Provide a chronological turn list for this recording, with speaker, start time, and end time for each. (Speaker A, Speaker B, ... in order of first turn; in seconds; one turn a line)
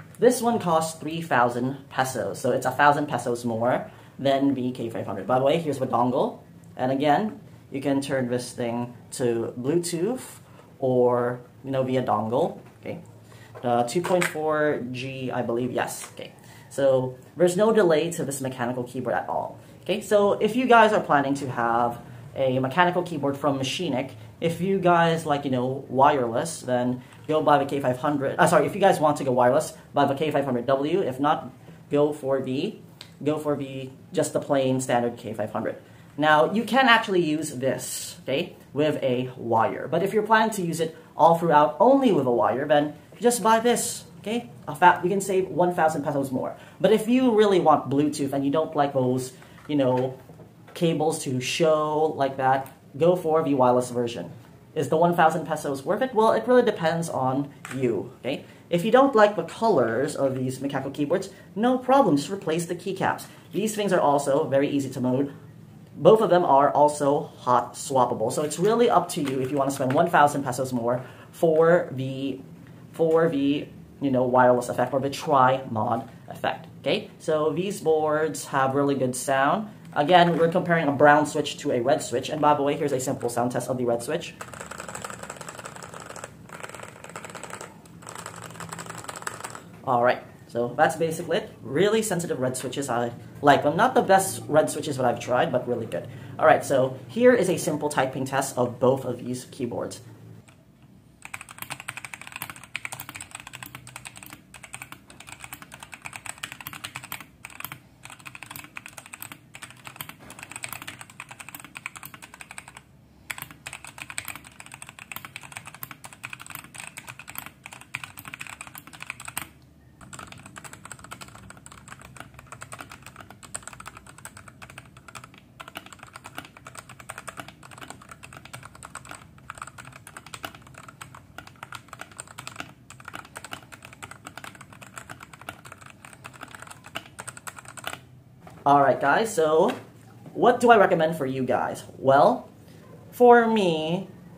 Speaker A: 0.2-13.0
Speaker A: 13.6-50.1
Speaker A: 50.7-65.3
Speaker A: 66.0-72.4
Speaker A: 72.9-84.3
Speaker A: 89.8-100.0
Speaker A: 138.7-139.8
Speaker A: 140.3-142.5
Speaker A: 143.1-144.1